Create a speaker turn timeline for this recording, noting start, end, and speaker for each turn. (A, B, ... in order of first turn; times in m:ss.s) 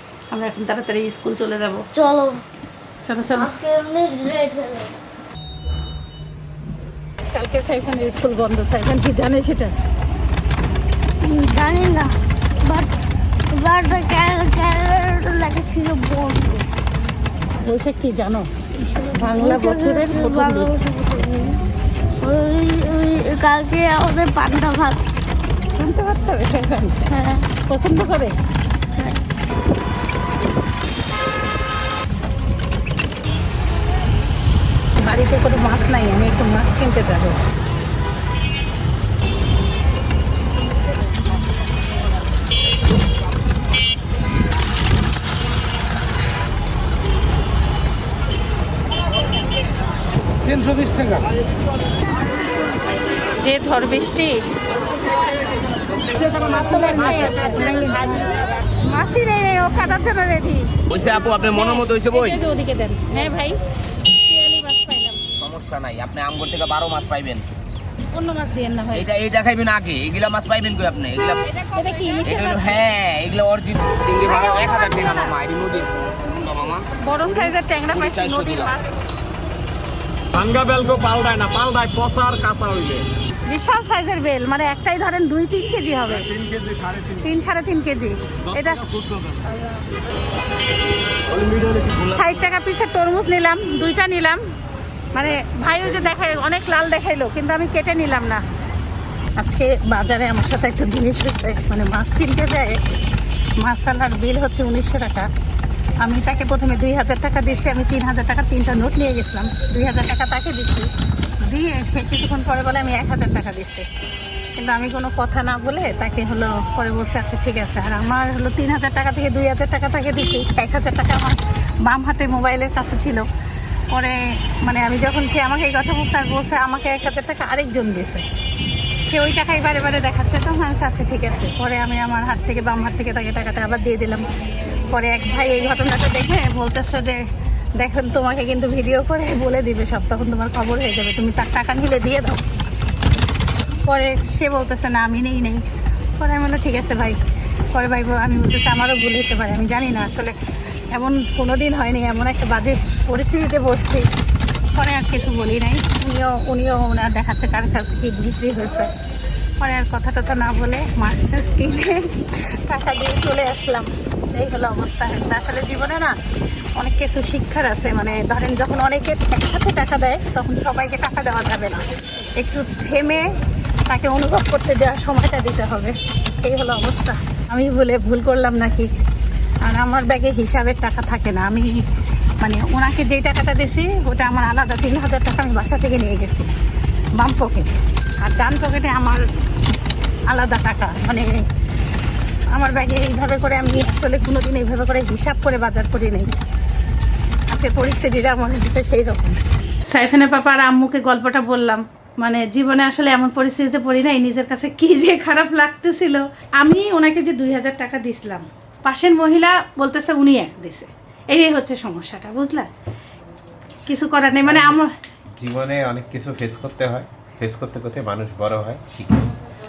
0:00.3-0:01.8 A
0:01.9-0:02.4 B
0:03.0-0:03.5 A
0:03.3-0:04.9 B
0:07.3-0:09.7 A
0:11.2-0:12.9 B
0:13.5-0:16.6 B
0:17.6-0:18.5 A
0:18.8-0:21.6 B
0:19.1-0:20.7 A
0:22.2-0:25.0 B
0:25.8-0:27.1 A
0:27.1-0:27.5 B
0:27.7-0:28.4 A
0:29.0-0:29.2 B
0:35.0-0:37.4 A
0:53.4-0:54.4 A
0:56.4-0:58.2 A
0:58.8-1:03.6 A
1:00.9-1:02.4 C
1:04.1-1:05.2 A
1:05.4-1:07.4 C
1:08.1-1:09.1 A
1:08.9-1:11.4 C
1:11.5-1:12.8 A
1:12.2-1:18.8 C
1:14.2-1:15.3 A
1:17.0-1:18.9 A
1:20.3-1:23.0 D
1:23.5-1:26.3 A
1:26.1-1:27.3 D
1:27.2-1:28.8 A
1:28.5-1:29.4 D
1:29.4-1:29.8 A
1:31.3-1:32.4 D
1:32.1-1:34.4 A
1:35.1-1:38.4 A
1:39.4-1:42.8 A
1:43.6-1:45.3 A
1:46.0-1:50.9 A
1:51.4-1:53.8 A
1:54.6-2:03.2 A
2:03.9-2:08.2 A
2:09.1-2:14.3 A
2:14.9-2:17.2 A
2:17.8-2:22.4 A
2:23.8-2:25.6 A
2:26.2-2:27.2 A
2:27.7-2:30.3 A
2:30.9-2:34.1 A
2:34.7-2:38.9 A
2:39.6-2:46.2 A
2:46.8-2:53.3 A
2:53.9-2:58.9 A
2:59.6-3:01.8 A
3:02.4-3:06.5 A
3:07.2-3:07.7 A
3:08.2-3:09.2 A
3:10.3-3:11.4 A
3:12.5-3:16.3 A
3:17.5-3:32.7 A
3:33.9-3:34.9 A
3:34.4-3:34.8 E
3:35.4-3:39.3 E